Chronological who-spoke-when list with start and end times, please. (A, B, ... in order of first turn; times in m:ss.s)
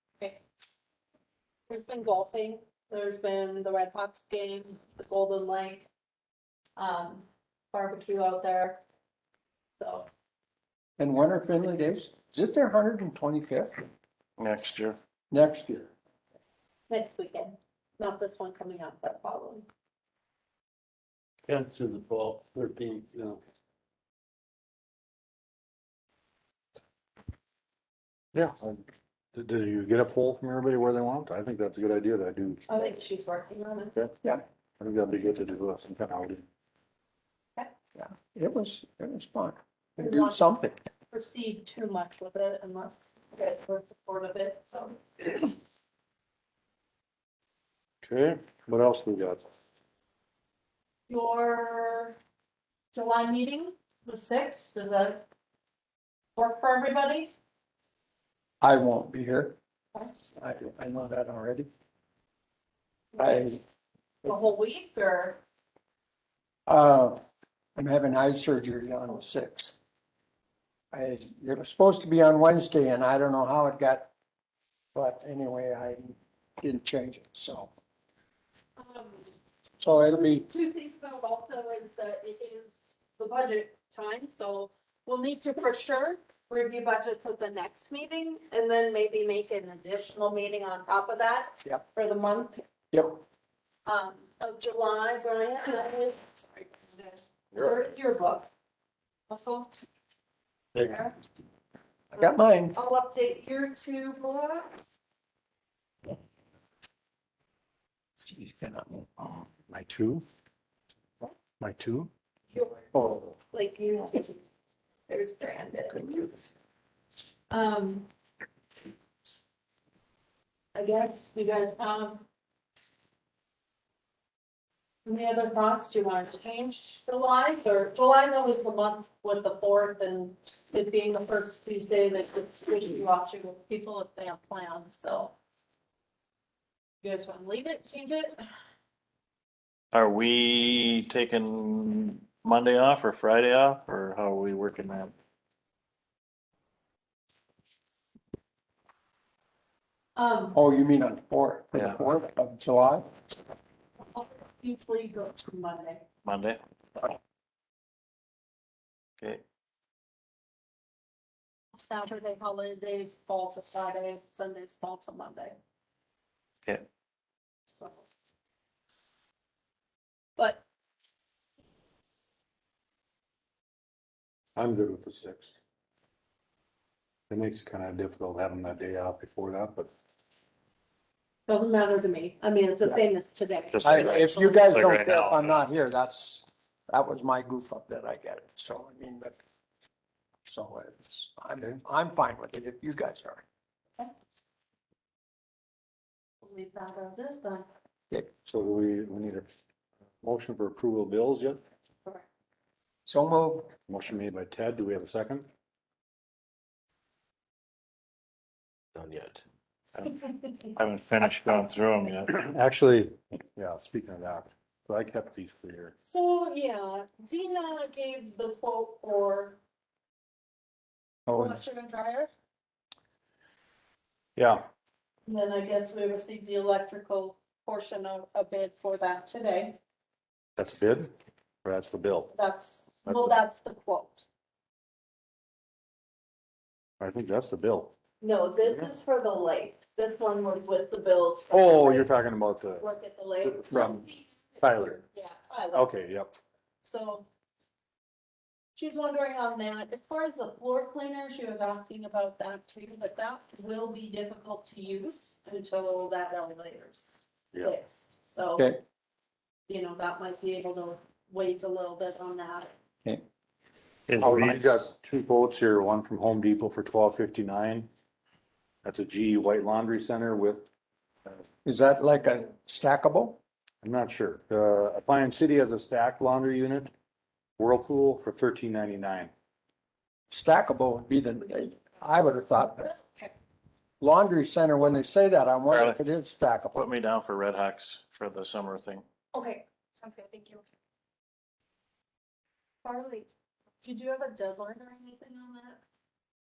0:01.7-0:05.9 A
0:06.8-0:08.8 A
0:09.8-0:10.1 A
0:11.0-0:13.8 B
0:14.4-0:15.0 C
0:15.3-0:15.9 B
0:16.9-0:19.6 A
0:21.5-0:23.4 D
0:28.3-0:28.8 E
0:29.3-0:32.7 E
0:32.7-0:34.0 A
0:34.8-0:36.4 E
0:38.0-0:40.8 B
0:40.0-0:40.5 A
0:41.1-0:45.5 A
0:48.0-0:49.4 E
0:51.1-0:52.2 A
0:52.9-0:55.2 A
0:56.4-0:57.3 A
0:58.6-0:59.6 B
1:00.3-1:01.7 B
1:03.2-1:03.6 B
1:04.3-1:05.4 A
1:06.7-1:07.2 B
1:07.8-1:09.8 B
1:10.9-1:14.1 B
1:14.9-1:17.7 B
1:18.8-1:19.3 A
1:19.8-1:20.5 B
1:20.5-1:32.6 A
1:32.9-1:33.2 B
1:33.8-1:38.5 A
1:39.3-1:39.8 A
1:40.8-1:41.1 A
1:42.1-1:42.8 B
1:42.7-1:45.0 A
1:48.2-1:49.3 B
1:49.7-1:50.2 E
1:51.6-1:52.1 E
1:52.5-1:52.8 A
1:52.9-1:53.3 B
1:53.5-1:54.4 A
1:55.1-1:56.5 A
1:57.5-1:58.1 A
2:00.7-2:02.2 A
2:05.0-2:15.3 A
2:17.0-2:18.4 A
2:19.9-2:25.1 C
2:30.2-2:30.5 A
2:30.5-2:33.0 B
2:34.0-2:36.0 A
2:36.2-2:36.6 C
2:41.7-2:45.6 A
2:47.7-2:48.0 A
2:50.4-2:50.6 A
2:54.6-2:55.5 E
2:57.3-2:59.9 E
3:01.5-3:04.1 A
3:03.7-3:05.5 C
3:03.8-3:09.4 B
3:10.4-3:13.4 B
3:16.4-3:17.7 A
3:18.4-3:19.4 E
3:20.2-3:21.6 E
3:23.0-3:23.7 B
3:23.9-3:25.4 E
3:29.0-3:29.4 D
3:29.9-3:32.4 C
3:32.3-3:36.0 E
3:36.0-3:39.6 A
3:41.3-3:41.6 B
3:41.3-3:42.3 A
3:44.4-3:44.6 E
3:45.2-3:49.8 A
3:50.6-3:51.1 E
3:51.6-3:52.3 E
3:52.3-3:54.2 A
3:53.0-3:53.4 E
3:57.0-3:57.9 E
3:58.2-4:02.1 A
4:01.5-4:02.9 E
4:02.8-4:05.8 A
4:03.4-4:04.0 E
4:03.7-4:04.0 B
4:04.6-4:05.0 E
4:05.7-4:06.4 E
4:06.8-4:07.2 A
4:08.8-4:18.7 A
4:18.6-4:18.8 B
4:19.7-4:22.7 A
4:24.1-4:24.8 D
4:24.2-4:27.9 E
4:28.8-4:30.6 E
4:31.6-4:33.4 B
4:33.8-4:36.9 E
4:37.6-4:39.3 E
4:40.3-4:42.9 B
4:42.9-4:43.3 A
4:44.0-4:46.8 B
4:45.7-4:46.0 C
4:46.7-4:49.0 C
4:49.3-4:50.6 A
4:52.8-4:53.3 A
4:53.8-4:55.8 A